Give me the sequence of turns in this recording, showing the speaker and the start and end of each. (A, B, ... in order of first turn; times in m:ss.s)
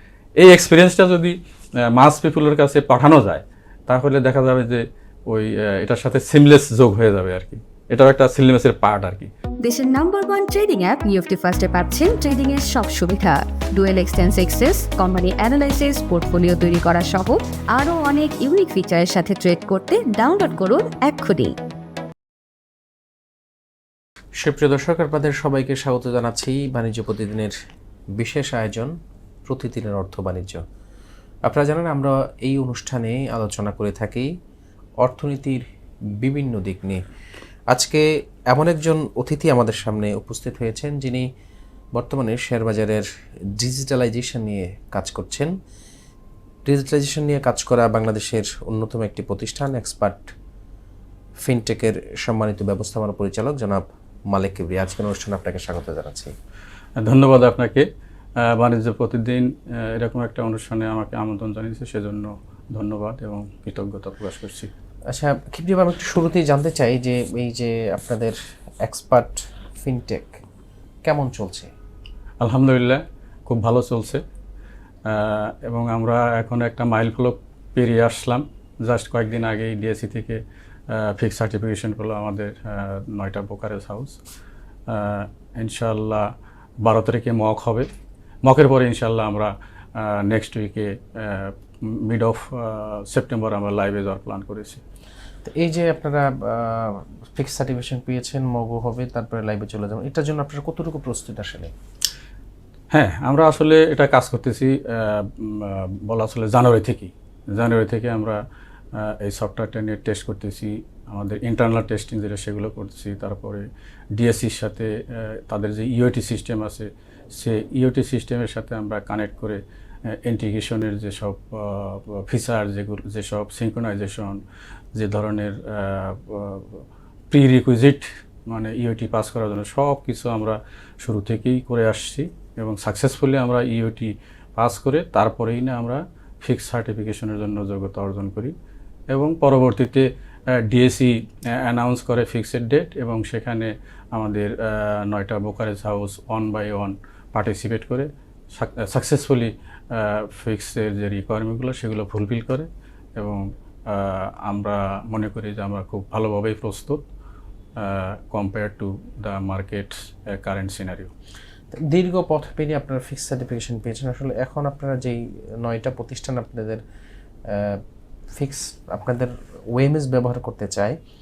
0:00.4-0:09.3 A
0:09.6-0:21.5 B
0:24.4-0:27.5 C
0:28.2-0:28.9 C
0:29.4-0:30.6 C
0:31.5-0:34.3 C
0:35.0-0:35.6 C
0:36.2-0:37.0 C
0:37.7-0:41.2 C
0:41.9-0:45.5 C
0:46.6-0:50.3 C
0:51.4-0:56.3 C
0:57.0-0:57.8 A
0:58.4-1:04.7 A
1:05.1-1:10.4 C
1:11.0-1:11.7 C
1:12.4-1:14.2 A
1:15.0-1:24.2 A
1:24.9-1:26.3 A
1:26.8-1:27.9 A
1:28.4-1:34.8 A
1:35.4-1:41.7 C
1:42.9-1:48.4 A
1:48.9-2:04.4 A
2:04.9-2:18.5 A
2:19.1-2:37.0 A
2:37.8-2:41.1 A
2:41.7-2:46.8 C
2:47.5-2:51.0 C